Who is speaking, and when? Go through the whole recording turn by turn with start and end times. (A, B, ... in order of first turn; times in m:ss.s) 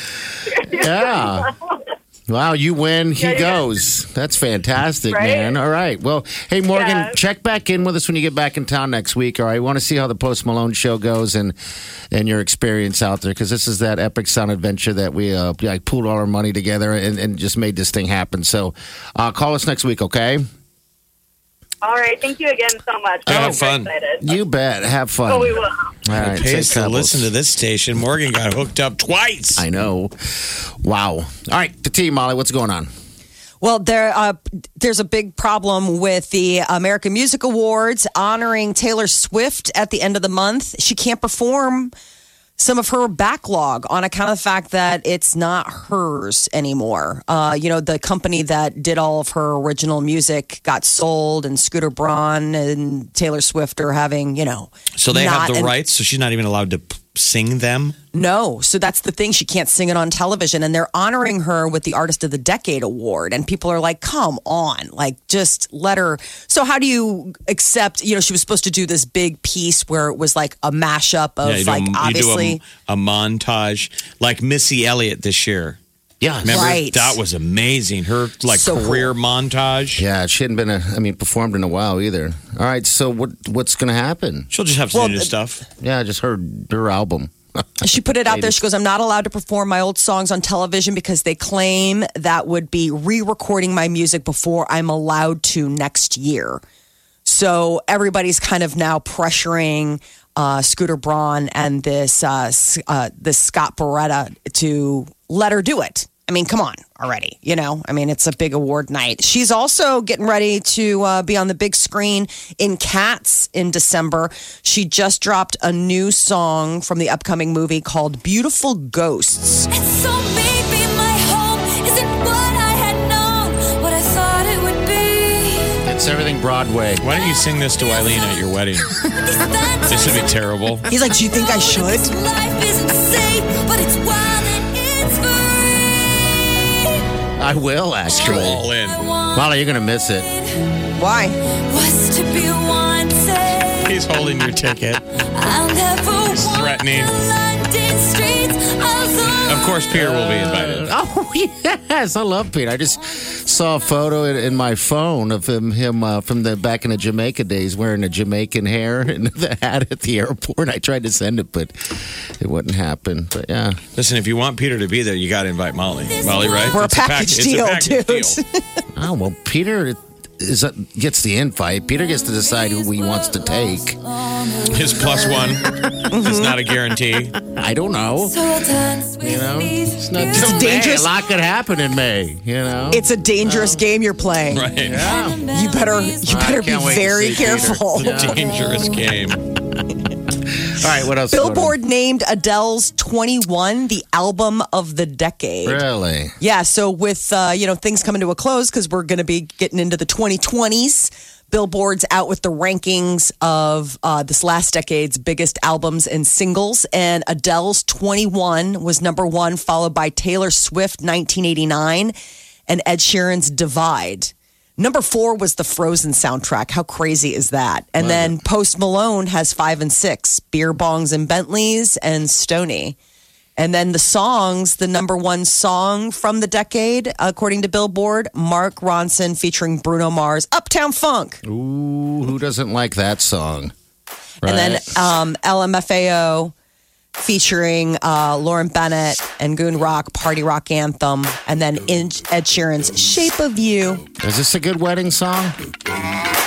0:00.5-0:01.8 A
0:00.7-0:01.5 B
0:02.3-0:11.6 B
0:03.2-0:03.6 A
0:05.1-0:05.6 A
0:06.7-0:07.2 A
0:12.1-0:20.4 B
0:21.8-0:24.3 A
0:23.2-0:23.9 C
0:24.2-0:27.3 B
0:25.3-0:25.8 A
0:26.1-0:29.6 C
0:29.6-0:32.9 B
0:33.6-0:41.9 D
0:42.6-0:55.7 D
0:55.0-0:57.9 C
0:58.1-1:12.6 D
1:11.4-1:15.8 C
1:16.2-1:16.7 B
1:16.4-1:20.0 C
1:16.4-1:17.2 D
1:18.5-1:19.1 D
1:20.0-1:24.5 B
1:24.5-1:25.6 C
1:24.9-1:25.3 D
1:25.8-1:28.6 B
1:27.8-1:36.6 D
1:37.2-1:59.7 D
1:59.7-2:05.7 E
2:05.8-2:07.0 B
2:07.0-2:08.9 C
2:09.1-2:10.3 E
2:09.8-2:10.8 C
2:10.9-2:12.2 D
2:11.2-2:17.0 E
2:17.4-2:18.6 B
2:18.1-2:19.0 C
2:18.2-2:19.4 E
2:19.3-2:20.3 B
2:21.0-2:21.4 D
2:21.7-2:23.9 E
2:23.8-2:25.0 C
2:25.3-2:29.7 E
2:26.3-2:27.1 C
2:29.3-2:30.9 C
2:29.9-2:43.8 B
2:44.0-2:48.4 C
2:46.1-2:46.8 E
2:46.6-2:48.8 D
2:48.9-2:54.0 B
2:52.4-2:55.5 E
2:54.5-2:57.4 C
2:56.1-2:56.6 D
2:57.4-2:58.4 B
2:58.2-3:00.8 E
2:59.2-3:03.8 B
3:00.3-3:01.1 D
3:02.9-3:04.7 D
3:04.5-3:05.1 C
3:04.8-3:05.4 B
3:04.8-3:06.3 E
3:05.5-3:08.2 D
3:06.2-3:08.5 B
3:07.9-3:09.4 C
3:10.6-3:11.8 B
3:11.3-3:15.8 D
3:15.6-3:16.4 B
3:16.4-3:32.1 D
3:32.7-3:43.0 D
3:38.0-3:38.3 B
3:43.6-3:51.4 D
3:51.4-3:53.7 B
3:54.4-3:54.8 B
3:54.4-3:56.5 D
3:57.2-4:04.0 D
4:04.2-4:05.6 B